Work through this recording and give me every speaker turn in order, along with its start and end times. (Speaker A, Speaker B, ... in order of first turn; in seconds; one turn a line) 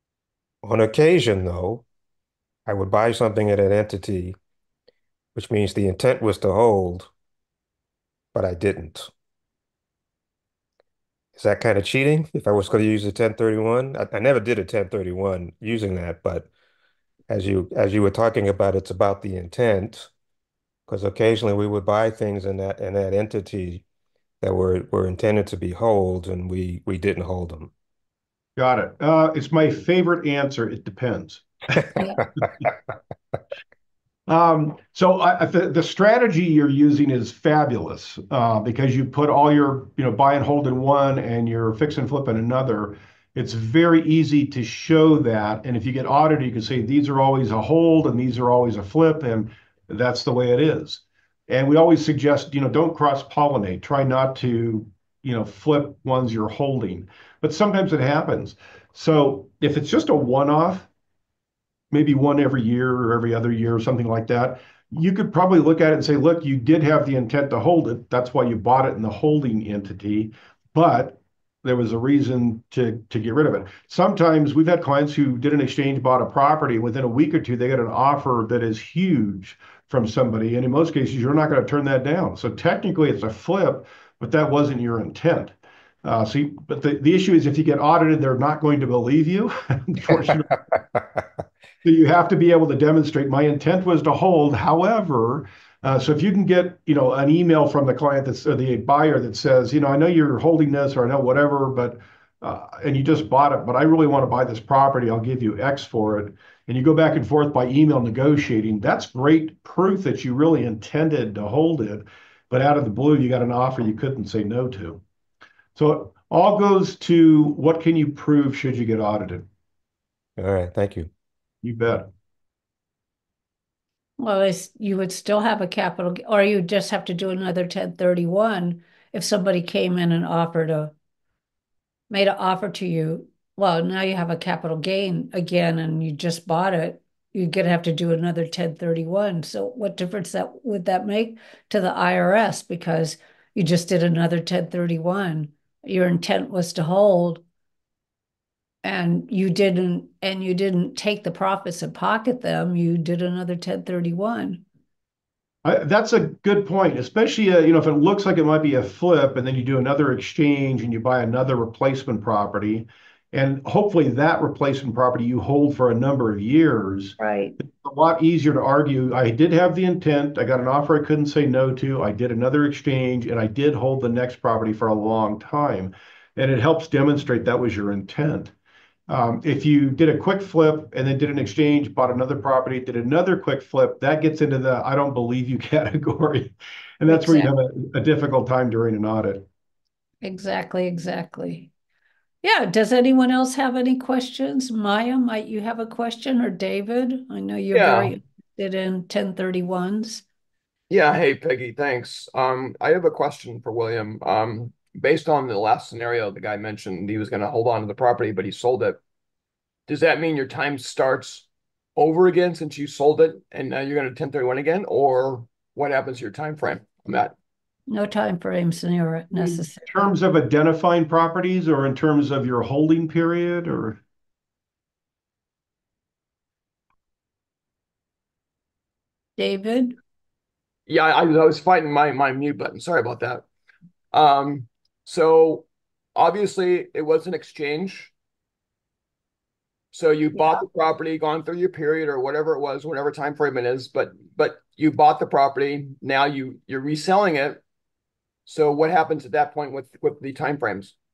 Speaker A: 0.6-1.8
Speaker A: 2.7-4.3
Speaker A: 5.3-7.1
Speaker A: 8.3-9.1
Speaker A: 11.4-16.5
Speaker A: 17.3-20.1
Speaker A: 20.9-23.8
Speaker A: 24.4-27.7
Speaker B: 28.6-31.5
Speaker C: 32.0-32.2
Speaker B: 34.3-60.9
Speaker B: 61.9-90.6
Speaker B: 91.8-115.0
Speaker B: 115.8-119.5
Speaker A: 120.4-121.1
Speaker B: 121.6-122.1
Speaker C: 124.2-130.9
Speaker C: 132.1-147.4
Speaker C: 148.8-154.6
Speaker B: 155.6-178.5
Speaker C: 167.2-167.5
Speaker B: 179.1-189.4
Speaker C: 187.1-187.5
Speaker C: 190.2-191.7
Speaker C: 192.4-200.2
Speaker D: 197.7-198.2
Speaker D: 200.9-209.0
Speaker D: 209.9-217.3
Speaker C: 217.9-219.8
Speaker B: 219.3-224.0
Speaker C: 229.4-230.0
Speaker D: 230.9-233.4
Speaker D: 234.1-238.1
Speaker D: 239.9-247.6
Speaker D: 248.4-250.9